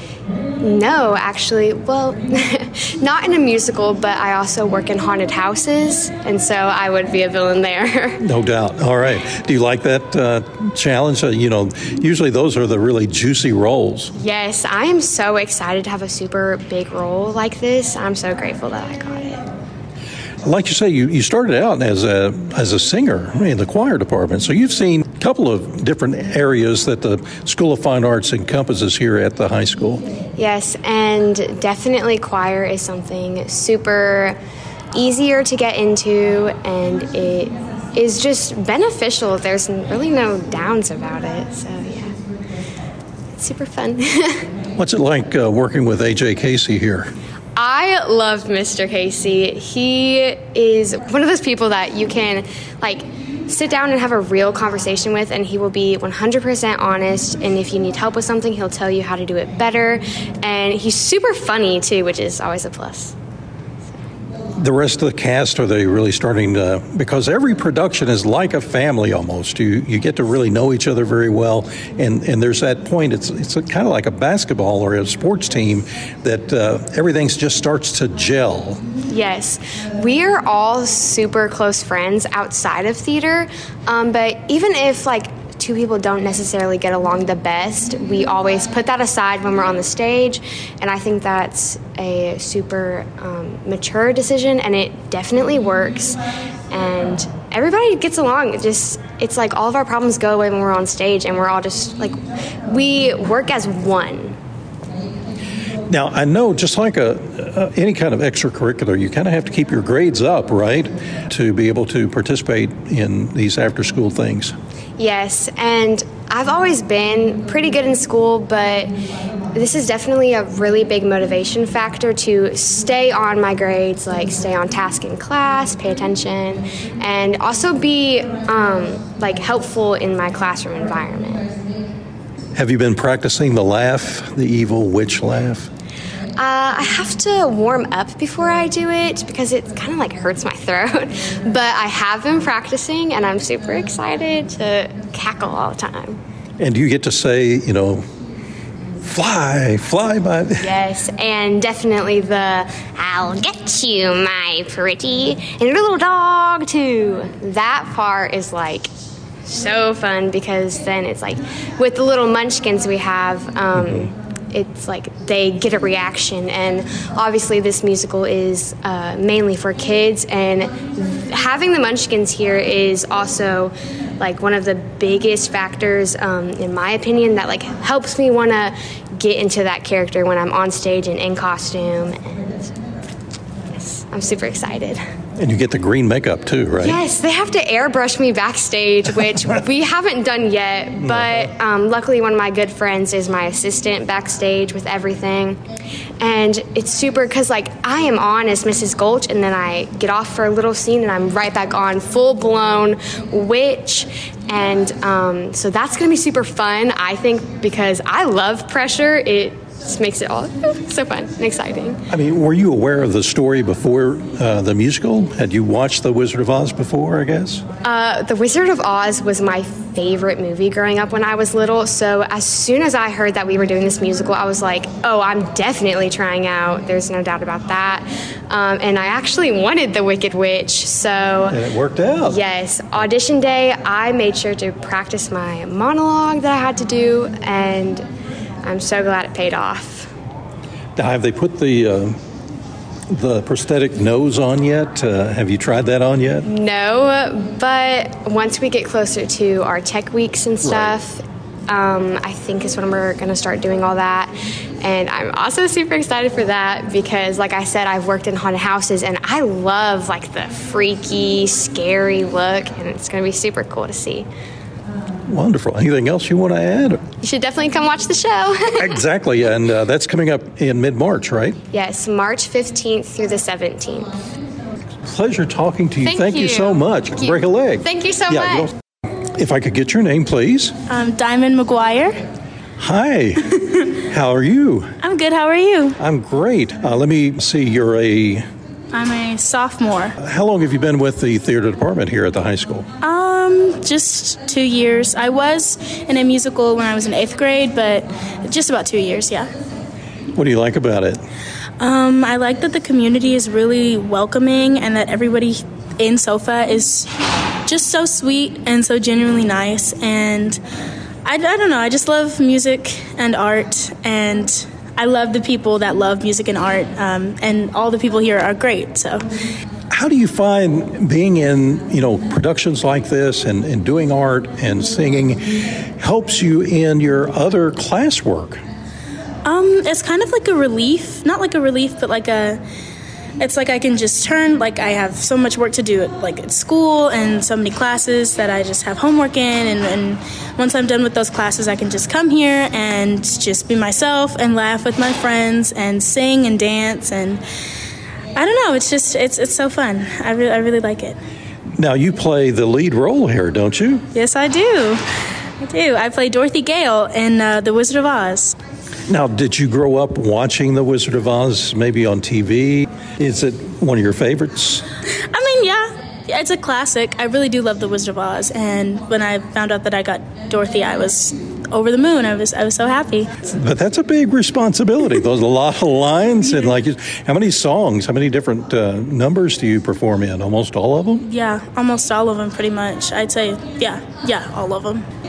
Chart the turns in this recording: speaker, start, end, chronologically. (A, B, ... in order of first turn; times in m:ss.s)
0:00.6-0:08.2 A
0:08.2-0:14.1 B
0:14.2-0:19.4 A
0:20.4-0:30.0 B
0:30.4-0:34.4 A
0:34.9-0:42.1 A
0:43.4-0:44.5 A
0:44.8-0:47.1 B
0:47.6-1:03.1 A
1:04.6-1:18.8 B
1:19.1-1:44.3 A
1:45.9-1:54.5 B
1:55.0-1:58.9 A
1:59.5-2:11.4 A
2:12.5-2:15.7 B
2:16.4-2:26.2 A
2:26.6-2:28.0 B
2:29.0-2:30.7 B
2:30.6-2:38.9 A
2:39.4-3:02.7 A
3:03.7-3:05.0 A
3:05.4-3:07.0 B
3:06.8-3:15.6 A
3:11.0-3:11.5 B
3:16.2-3:32.0 A
3:32.1-3:37.6 B
3:37.8-3:51.6 A
3:51.5-3:52.4 B
3:52.3-3:58.0 A
3:58.6-4:00.1 A
4:01.0-4:02.2 B
4:03.1-4:06.5 B
4:06.4-4:24.3 A
4:10.6-4:11.0 B
4:25.2-4:27.0 B
4:27.2-4:28.9 A
4:28.8-4:31.6 B
4:31.7-4:34.1 A
4:35.1-4:38.7 B
4:36.0-4:38.7 A
4:39.3-4:40.7 B
4:40.9-4:42.2 C
4:42.8-4:44.9 B
4:45.0-4:46.0 C
4:46.0-4:48.4 B
4:48.9-4:50.2 C
4:50.2-4:52.8 B
4:53.0-4:59.5 C
5:00.3-5:01.2 B
5:01.8-5:07.1 C
5:07.6-5:10.6 C
5:11.2-5:19.2 C
5:19.9-5:28.6 B
5:29.4-5:32.6 C
5:33.4-5:47.4 C
5:48.4-5:51.2 C
5:51.8-5:54.0 B
5:54.1-5:55.0 C
5:55.6-5:58.6 C
5:59.1-6:04.8 B
6:05.3-6:13.3 C
6:13.4-6:21.2 B
6:16.4-6:16.7 C
6:21.2-6:25.0 C